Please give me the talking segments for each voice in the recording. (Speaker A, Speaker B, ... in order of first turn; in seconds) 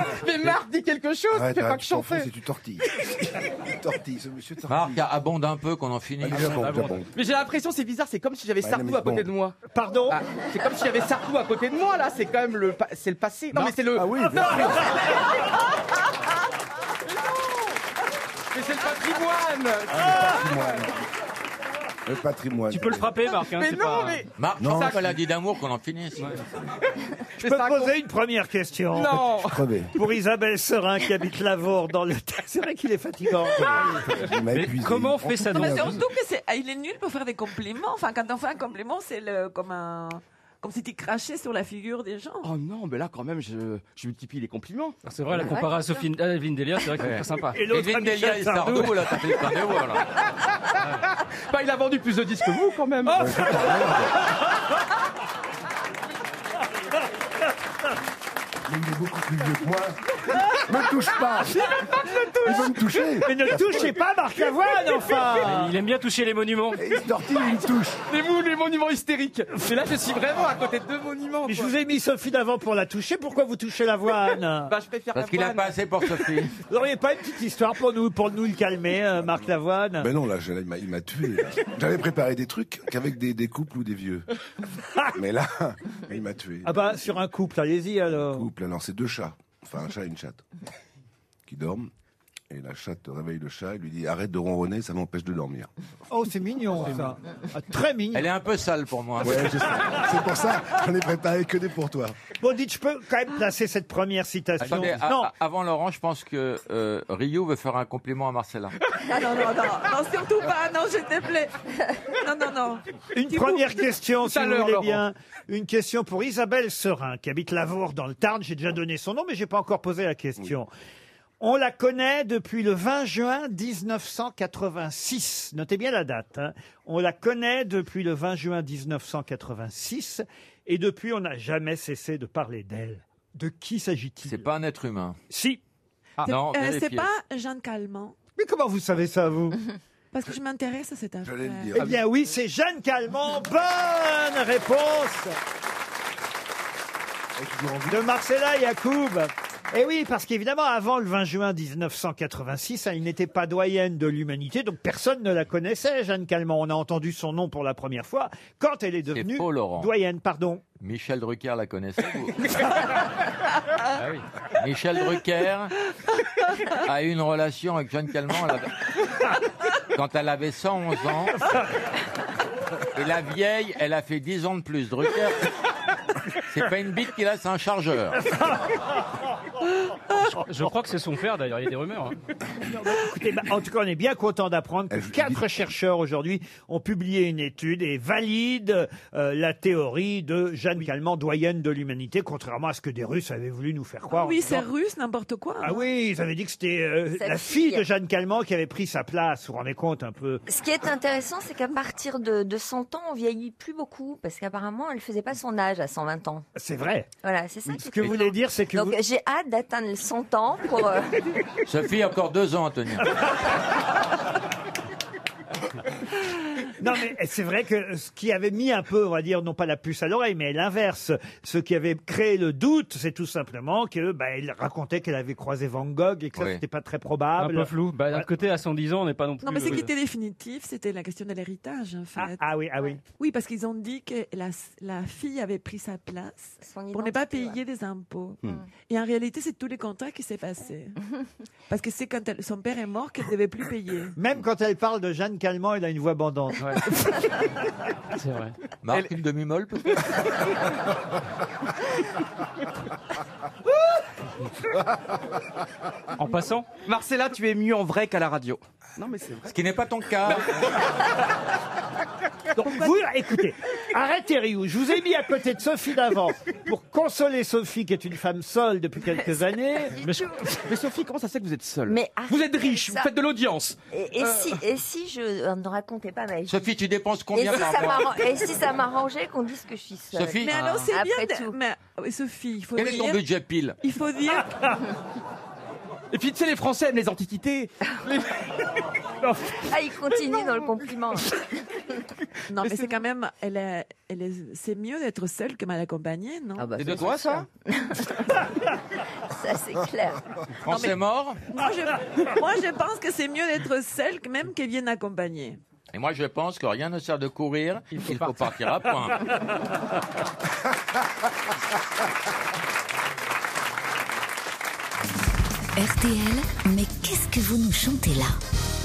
Speaker A: 0.2-2.3, 7.1-9.5, 10.1-15.2, 18.5-20.5, 23.5-25.0, 27.4-27.9, 28.9-29.6, 42.4-45.0, 51.5-53.5, 61.5-62.9, 68.1-71.7, 74.7-76.2, 114.2-115.0, 256.8-259.5, 260.2-260.5, 270.6-274.6, 286.1-287.7
Speaker B: 1.3-5.0, 6.2-7.1, 8.6-9.3, 20.0-21.0, 22.1-23.3, 24.6-25.1, 29.1-29.9, 33.6-36.1, 53.1-54.2, 58.7-61.6, 62.4-63.8, 66.8-68.0, 80.0-84.2, 85.1-86.8, 88.1-90.4, 91.5-91.9, 92.5-95.7, 96.8-97.0, 99.2-102.1, 141.2-142.0, 147.4-148.0, 184.9-185.4
Speaker C: 4.7-6.9, 24.3-26.4, 47.7-50.0, 75.1-76.5, 98.1-99.5, 104.6-108.7, 134.2-135.2, 136.2-137.1, 159.1-159.9, 160.8-162.4, 164.6-165.7, 166.7-168.7, 169.9-171.5, 172.9-175.5, 176.5-178.2, 211.7-213.3, 226.3-226.6, 248.8-250.3, 259.5-260.8, 276.4-278.2, 280.1-280.5, 282.8-283.8, 296.8-297.4, 300.6-301.4, 305.9-309.3
Speaker D: 6.5-7.0, 22.7-24.2, 34.5-35.9, 45.0-47.6, 65.3-66.8, 163.9-164.2, 180.4-182.2, 227.4-229.8, 248.1-248.6, 256.2-256.7
Speaker E: 9.7-10.2, 14.2-15.0, 27.4-29.1, 29.9-34.0, 47.5-48.9, 63.2-65.7, 71.5-74.7, 76.7-80.1, 86.6-88.5, 96.1-98.3, 102.4-105.3, 113.1-120.7, 121.4-134.5, 135.3-135.6, 138.4-139.6, 141.7-145.3, 147.9-160.6, 178.2-178.7, 182.7-194.7, 195.6-200.4, 206.6-207.1, 207.7-209.0, 216.8-228.3, 232.2-233.0, 244.2-246.8, 262.6-270.2
Speaker F: 35.5-42.5, 109.1-111.5, 112.2-112.8, 136.2-138.1, 140.1-141.7, 194.1-195.8, 229.4-232.4, 233.2-241.0, 241.7-244.1, 280.4-283.2, 283.8-284.5, 292.5-296.7, 300.7-301.0, 301.5-305.6
Speaker G: 45.3-45.8, 197.1-197.9, 200.5-206.4, 207.2-211.1, 236.6-237.6, 269.9-270.5, 271.9-273.1, 273.9-276.6, 277.3-281.6, 289.7-291.4, 296.6-298.4, 299.3-300.2
Speaker H: 315.8-318.4